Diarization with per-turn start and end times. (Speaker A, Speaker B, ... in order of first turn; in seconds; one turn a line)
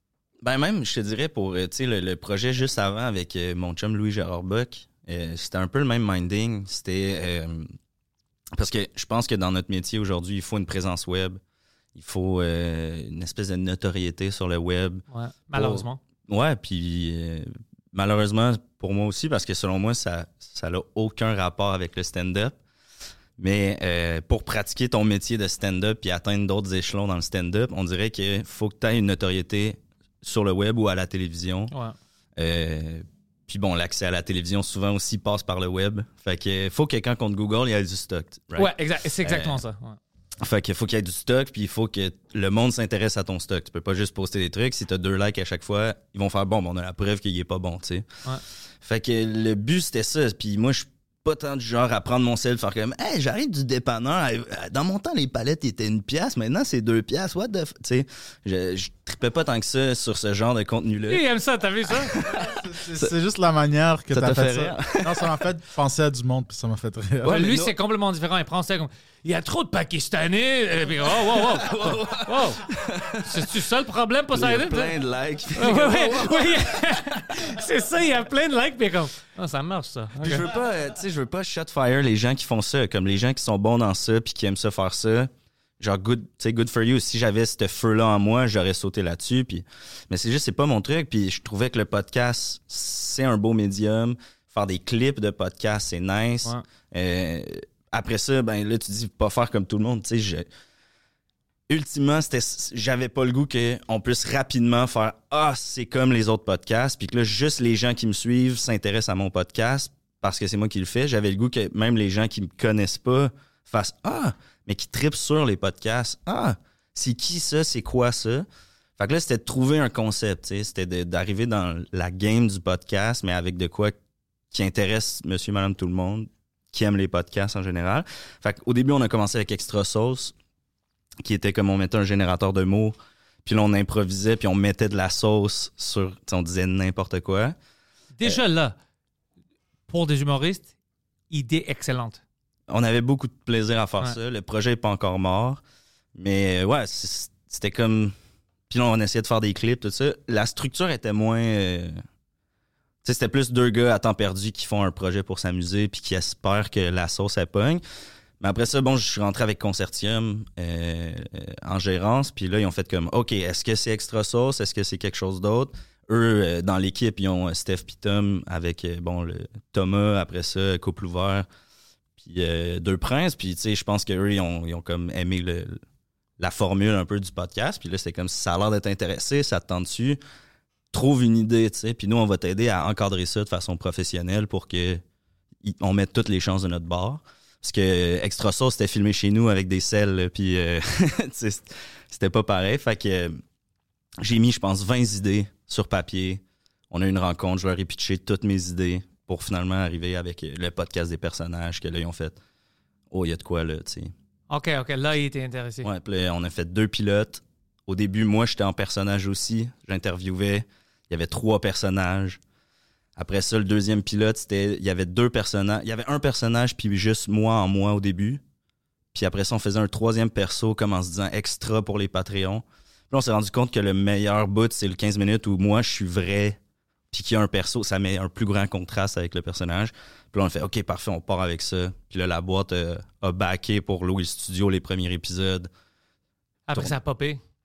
Speaker A: 0.4-7.7
Speaker A: 8.5-11.4
Speaker A: 11.9-22.6
Speaker B: 15.1-16.0
Speaker A: 23.4-31.7
Speaker A: 32.4-39.6
Speaker B: 38.5-40.0
Speaker A: 40.4-48.1
Speaker A: 48.8-61.2
Speaker B: 61.1-62.1
Speaker A: 61.9-63.1
Speaker C: 62.1-67.3
Speaker A: 64.1-65.4
Speaker A: 67.2-67.7
Speaker B: 67.2-72.6
Speaker A: 71.3-73.5
Speaker B: 73.2-74.9
Speaker A: 74.3-77.1
Speaker B: 75.5-80.4
Speaker A: 80.2-100.5
Speaker A: 101.7-118.5
Speaker A: 119.0-123.9
Speaker A: 124.5-130.3
Speaker A: 131.2-137.5
Speaker B: 138.2-138.8
Speaker B: 139.9-140.7
Speaker B: 141.3-142.2
Speaker A: 142.7-145.6
Speaker A: 146.2-148.1
Speaker A: 148.7-152.0
Speaker A: 153.0-157.8
Speaker A: 158.4-171.5
Speaker A: 172.2-175.8
Speaker A: 176.4-180.2
Speaker A: 180.9-185.0
Speaker A: 185.6-193.4
Speaker A: 194.2-202.4
Speaker A: 203.1-204.1
Speaker B: 204.5-205.9
Speaker A: 205.8-212.4
Speaker A: 213.2-218.4
Speaker A: 219.1-226.6
Speaker A: 227.1-235.7
Speaker B: 236.7-237.4